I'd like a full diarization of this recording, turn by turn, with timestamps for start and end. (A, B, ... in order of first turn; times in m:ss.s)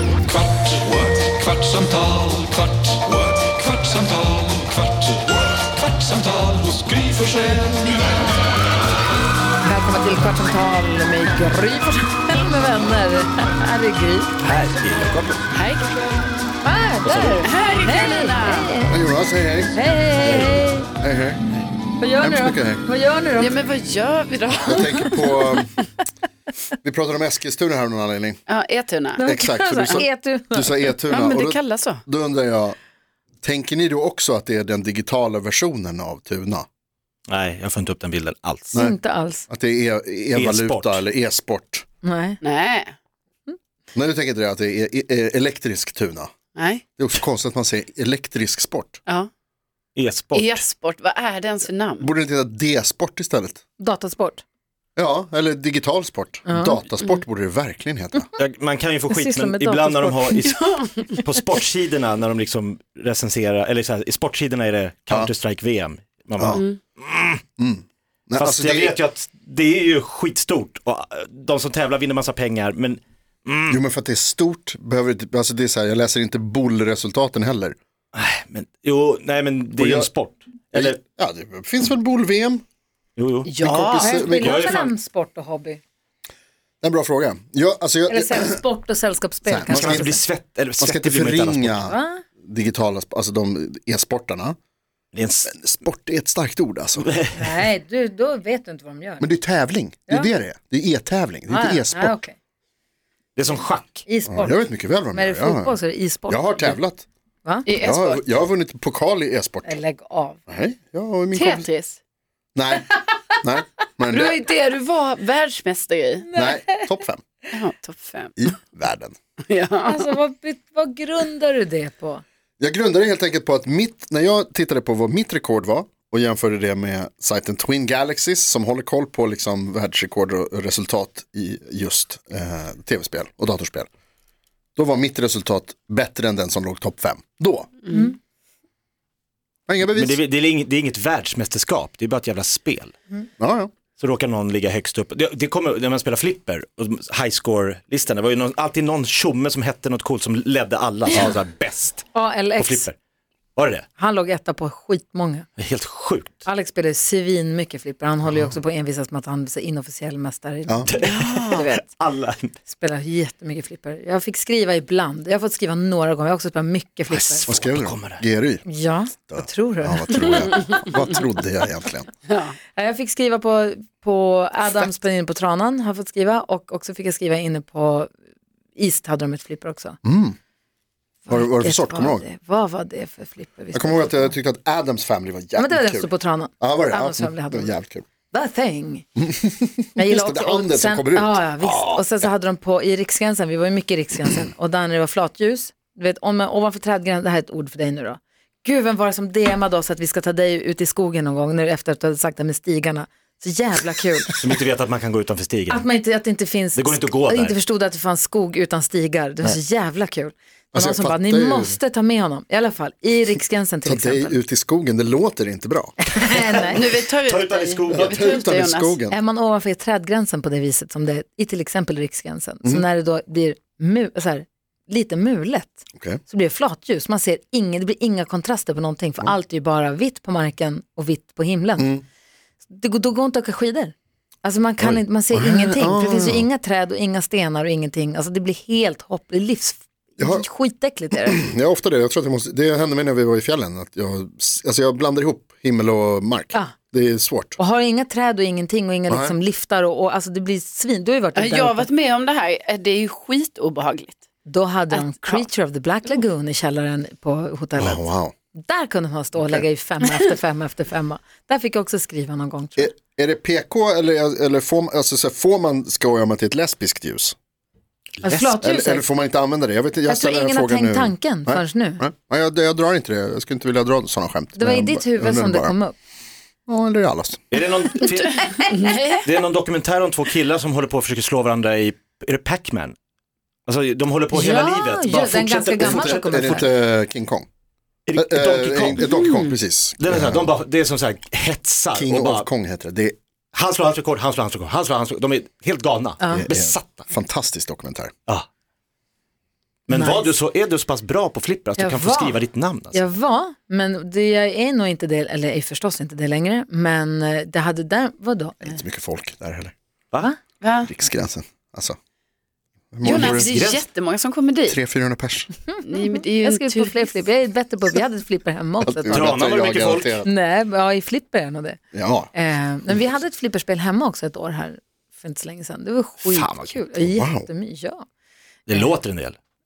0:00.3-0:05.2 A
0:05.8-0:07.8 A
0:09.6-0:14.4 B
0:14.4-0:15.4 C
0:15.5-0:15.9 D
0:16.6-0:19.0 B
0:17.0-0:17.4 C
0:17.2-0:18.8 D
0:18.9-0:19.8 E
0:19.7-0:20.9 B
0:20.2-0:20.7 C
0:21.0-0:21.4 E
0:22.0-0:23.6 B
0:22.2-0:22.8 E
0:23.4-0:25.2 D
0:24.6-0:25.8 E
0:24.8-0:25.6 B
0:26.8-0:28.4 E
0:28.5-0:29.2 D
0:29.2-0:30.9 B
0:29.2-0:32.8 E
0:29.8-0:30.0 D
0:31.1-0:32.0 D
0:33.4-0:36.6 E
0:37.3-0:38.8 C
0:38.7-0:39.5 B
0:38.7-0:41.8 E
0:40.3-0:41.0 C
0:42.0-0:42.4 B
0:42.4-0:42.9 D
0:43.9-0:46.3 E
0:46.6-0:46.8 D
0:47.0-0:49.0 E
0:50.0-0:50.6 C
0:50.3-0:52.0 D
0:52.0-0:53.6 E
0:53.8-0:54.4 B
0:55.0-0:58.3 E
0:56.4-0:56.8 B
0:58.4-1:07.4 C
0:59.1-1:00.6 B
1:07.6-1:09.0 E
1:08.4-1:13.8 C
1:13.7-1:17.7 E
1:18.1-1:21.0 C
1:19.8-1:20.1 E
1:20.7-1:22.6 E
1:23.2-1:24.9 C
1:23.4-1:24.2 D
1:23.6-1:24.9 E
1:24.0-1:25.8 B
1:26.8-1:28.6 E
1:28.1-1:30.2 B
1:29.4-1:30.1 E
1:29.7-1:31.8 C
1:30.8-1:34.6 E
1:31.8-1:32.2 B
1:35.1-1:35.5 C
1:35.5-1:37.1 E
1:37.0-1:37.6 C
1:37.3-1:39.3 B
1:39.2-1:42.2 E
1:41.5-1:42.4 B
1:43.4-1:44.0 C
1:43.5-1:46.8 B
1:44.3-1:45.8 E
1:46.3-1:47.0 E
1:47.4-1:47.7 B
1:47.7-1:48.2 D
1:47.8-1:49.8 E
1:49.6-1:50.4 B
1:50.5-1:51.7 E
1:51.3-1:52.0 D
1:52.5-1:54.4 E
1:54.1-1:56.2 D
1:56.3-1:57.0 B
1:56.3-1:57.2 E
1:57.5-1:58.3 D
1:58.4-1:59.1 E
1:59.4-2:00.1 D
1:59.8-2:02.2 B
2:02.6-2:13.9 E
2:14.8-2:17.7 E
2:17.9-2:18.2 B
2:19.7-2:20.2 E
2:19.9-2:22.9 C
2:23.4-2:23.7 E
2:24.0-2:32.9 C
2:32.1-2:32.9 B
2:33.6-2:33.9 C
2:34.0-2:35.5 B
2:35.6-2:36.4 C
2:36.4-2:41.9 B
2:40.9-2:42.5 C
2:42.6-2:47.5 B
2:47.1-2:48.2 C
2:47.5-2:48.6 E
2:48.6-2:50.6 B
2:49.2-2:52.1 E
2:52.3-2:52.5 D
2:52.7-2:58.1 B
2:58.8-3:00.0 B
3:00.0-3:00.4 E
3:01.2-3:04.3 B
3:01.3-3:02.2 E
3:03.7-3:06.1 E
3:05.6-3:07.7 B
3:06.6-3:08.0 E
3:08.3-3:09.1 B
3:09.2-3:12.0 E
3:10.0-3:24.4 B
3:24.3-3:25.8 C
3:25.7-3:34.4 B
3:26.7-3:27.6 C
3:30.7-3:31.8 E
3:33.8-3:36.6 E
3:36.0-3:36.8 B
3:36.6-3:39.0 D
3:37.2-3:38.3 C
3:37.9-3:39.2 E
3:39.1-3:51.9 B
3:51.8-3:52.0 E
3:52.7-4:01.4 B
3:55.3-3:56.5 E
4:00.2-4:00.4 E
4:01.2-4:07.6 E
4:07.6-4:11.9 B
4:09.1-4:09.4 E
4:11.3-4:14.2 D
4:14.4-4:18.0 B
4:14.9-4:15.4 D
4:17.8-4:18.3 E
4:18.6-4:22.9 B
4:22.8-4:27.3 E
4:28.2-4:29.0 B
4:28.2-4:35.7 E
4:30.1-4:32.0 B
4:34.6-4:36.0 B
4:36.7-4:37.4 E
4:37.5-4:38.6 C
4:38.4-4:39.0 B
4:38.4-4:39.2 D
4:39.2-4:42.9 C
4:43.7-4:46.6 C
4:44.3-4:46.7 B
4:45.8-4:47.4 E
4:48.1-4:49.2 C
4:48.2-4:50.5 E
4:50.0-4:52.5 C
4:51.9-4:53.2 E
4:53.5-4:57.1 C
4:56.2-4:56.4 B
4:56.3-4:58.1 E
4:59.9-5:03.0 C
4:59.9-5:00.3 B
5:01.8-5:08.8 B
5:08.6-5:09.7 E
5:10.6-5:10.9 D
5:10.8-5:12.0 E
5:12.9-5:13.6 E
5:13.0-5:14.8 D
5:13.0-5:13.8 C
5:14.6-5:15.5 E
5:15.6-5:19.3 B
5:15.8-5:17.2 D
5:18.8-5:20.3 E
5:19.1-5:20.2 C
5:20.2-5:21.8 B
5:21.9-5:22.3 E
5:22.3-5:28.0 B
5:26.2-5:27.0 C
5:27.1-5:27.5 E
5:28.7-5:29.4 C
5:28.7-5:28.9 B